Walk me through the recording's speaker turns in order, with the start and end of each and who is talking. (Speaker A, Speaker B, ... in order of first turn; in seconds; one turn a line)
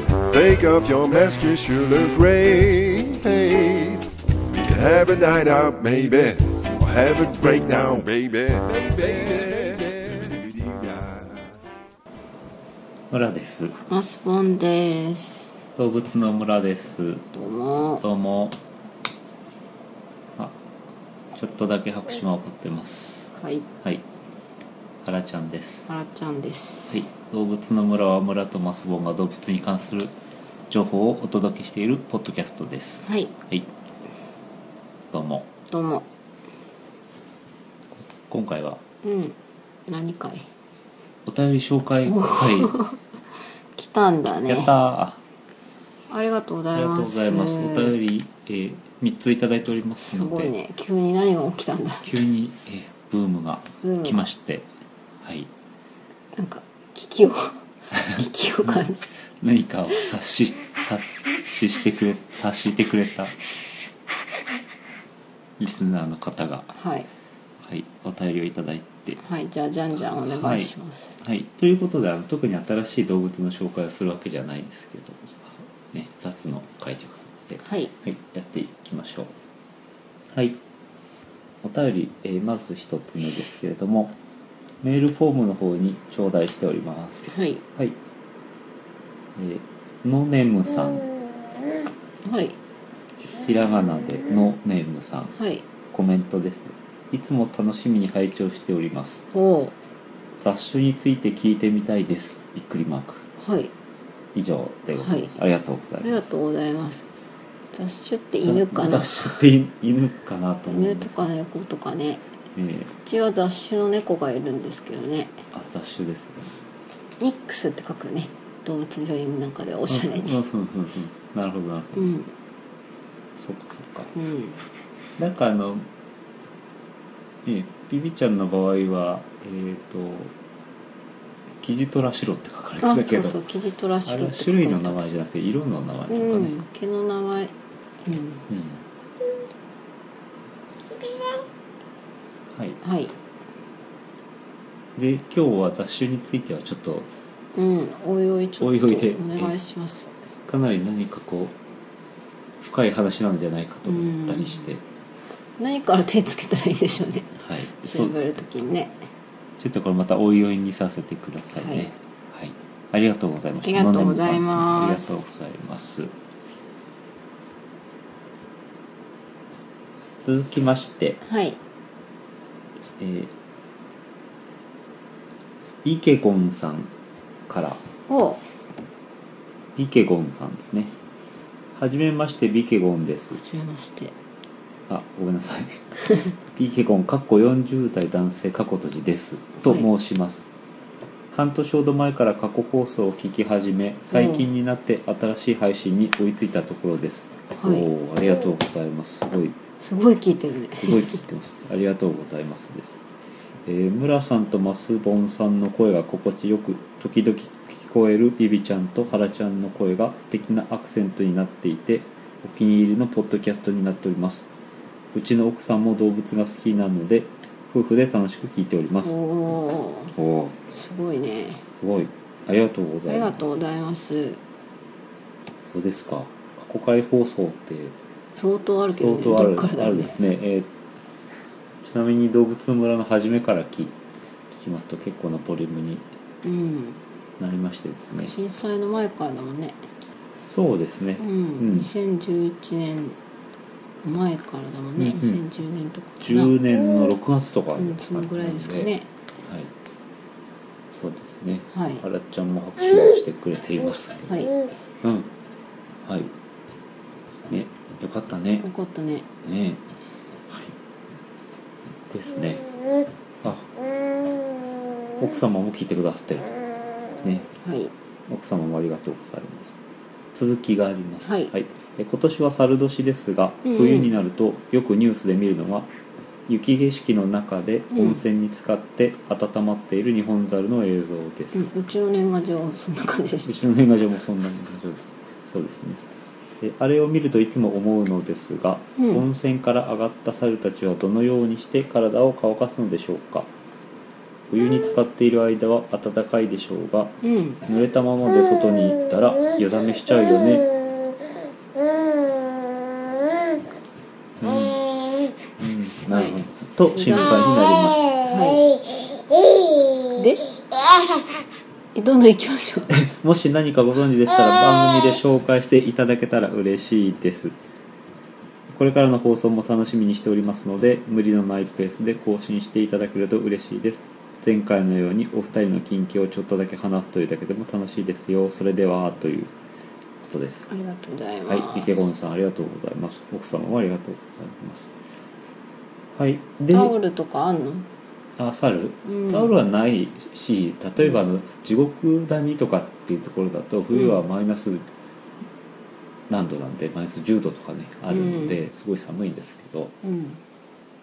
Speaker A: 0.3-11.5
Speaker B: 13.1-13.8
Speaker C: 13.9-15.6
Speaker B: 15.8-17.3
Speaker C: 17.3-18.0
Speaker B: 18.0-18.6
Speaker B: 21.4-23.3
Speaker C: 23.4-23.7
Speaker B: 25.0-25.9
Speaker C: 25.9-27.1
Speaker B: 26.9-30.1
Speaker B: 30.7-33.7
Speaker C: 33.1-33.3
Speaker B: 35.1-35.5
Speaker C: 35.7-36.1
Speaker B: 38.0-38.8
Speaker C: 39.0-40.5
Speaker B: 41.3-42.8
Speaker C: 42.1-43.0
Speaker C: 43.8-44.8
Speaker B: 44.4-45.2
Speaker C: 46.1-48.0
Speaker B: 46.7-50.5
Speaker C: 50.0-52.2
Speaker B: 52.0-54.7
Speaker C: 53.8-54.3
Speaker B: 55.2-55.5
Speaker C: 56.4-59.1
Speaker B: 58.1-58.8
Speaker B: 59.4-63.4
Speaker B: 65.6-66.8
Speaker C: 66.7-67.1
Speaker B: 67.6-69.2
Speaker C: 69.2-71.2
Speaker B: 70.3-79.3
Speaker C: 77.6-77.9
Speaker B: 80.3-80.6
Speaker B: 81.6-84.2
Speaker B: 84.8-88.0
Speaker C: 87.3-87.6
Speaker B: 89.4-91.1
Speaker C: 92.2-92.6
Speaker B: 93.3-95.3
Speaker C: 95.3-95.7
Speaker B: 95.9-99.2
Speaker C: 99.3-99.8
Speaker B: 100.4-103.2
Speaker C: 103.4-103.7
Speaker B: 104.3-106.2
Speaker C: 104.9-105.3
Speaker C: 106.0-107.0
Speaker C: 107.7-109.5
Speaker B: 108.4-111.3
Speaker C: 110.7-112.2
Speaker B: 112.5-112.9
Speaker C: 113.0-115.4
Speaker B: 115.5-116.5
Speaker C: 117.2-120.4
Speaker B: 119.9-122.0
Speaker C: 122.0-122.3
Speaker B: 123.4-124.1
Speaker C: 124.1-124.6
Speaker B: 125.2-125.9
Speaker B: 127.5-130.3
Speaker B: 131.6-133.4
Speaker C: 132.8-135.0
Speaker B: 134.1-136.5
Speaker C: 136.1-138.5
Speaker B: 138.5-138.8
Speaker B: 142.5-142.8
Speaker C: 142.8-143.2
Speaker B: 145.0-147.1
Speaker C: 147.5-150.1
Speaker B: 148.6-149.6
Speaker B: 150.5-151.6
Speaker B: 152.6-154.8
Speaker C: 153.8-154.7
Speaker C: 155.6-159.0
Speaker B: 157.3-158.7
Speaker B: 159.6-166.1
Speaker C: 161.6-161.9
Speaker C: 163.6-165.3
Speaker B: 170.2-171.2
Speaker C: 171.2-171.6
Speaker B: 173.0-173.3
Speaker B: 175.8-176.9
Speaker B: 177.5-177.8
Speaker C: 178.1-178.4
Speaker B: 179.8-180.9
Speaker B: 181.8-183.4
Speaker C: 183.3-184.2
Speaker B: 184.9-185.8
Speaker B: 186.5-190.5
Speaker B: 191.3-199.6
Speaker C: 194.1-194.4
Speaker C: 197.6-197.9
Speaker C: 199.8-201.2
Speaker B: 200.8-203.0
Speaker B: 203.7-214.5
Speaker B: 215.1-219.2
Speaker C: 219.0-220.2
Speaker B: 220.2-220.6
Speaker C: 220.7-221.6
Speaker B: 221.8-223.5
Speaker C: 223.1-224.4
Speaker B: 225.7-227.9
Speaker C: 228.3-230.2
Speaker B: 228.9-230.7
Speaker B: 231.8-233.9
Speaker B: 234.5-236.1
Speaker C: 236.4-237.0
Speaker B: 237.4-238.3
Speaker C: 238.2-239.8
Speaker B: 240.5-241.9
Speaker C: 241.2-243.2
Speaker C: 244.0-246.6
Speaker B: 245.0-245.4
Speaker B: 246.2-248.9
Speaker C: 247.8-249.1
Speaker B: 249.4-249.7
Speaker B: 250.9-254.5
Speaker C: 251.7-252.0
Speaker B: 255.0-255.3
Speaker B: 256.1-256.3
Speaker B: 257.5-258.6
Speaker C: 258.6-259.3
Speaker B: 259.4-259.8
Speaker B: 262.1-262.6
Speaker B: 263.4-263.7
Speaker B: 265.2-266.6
Speaker B: 267.2-267.5
Speaker C: 267.6-267.9
Speaker B: 268.3-269.8
Speaker B: 270.3-275.9
Speaker C: 271.2-271.5
Speaker C: 273.6-274.1
Speaker B: 276.5-281.6
Speaker C: 277.9-278.2
Speaker C: 281.5-283.6
Speaker B: 283.4-286.0
Speaker B: 286.6-293.5
Speaker C: 289.0-289.3
Speaker B: 294.5-300.7
Speaker C: 297.2-297.6
Speaker B: 304.4-304.8
Speaker B: 305.6-308.1
Speaker C: 306.1-306.4
Speaker C: 306.9-307.6
Speaker C: 308.2-308.7
Speaker C: 310.1-310.6
Speaker C: 311.9-313.0
Speaker B: 312.9-317.6
Speaker B: 318.7-329.5
Speaker B: 330.2-330.7
Speaker C: 330.7-332.1
Speaker B: 331.5-334.9
Speaker B: 336.1-337.0
Speaker C: 336.7-337.9
Speaker B: 338.4-344.9
Speaker C: 339.1-339.5
Speaker C: 343.9-344.2
Speaker B: 346.3-349.9
Speaker C: 348.1-348.6
Speaker C: 350.0-350.4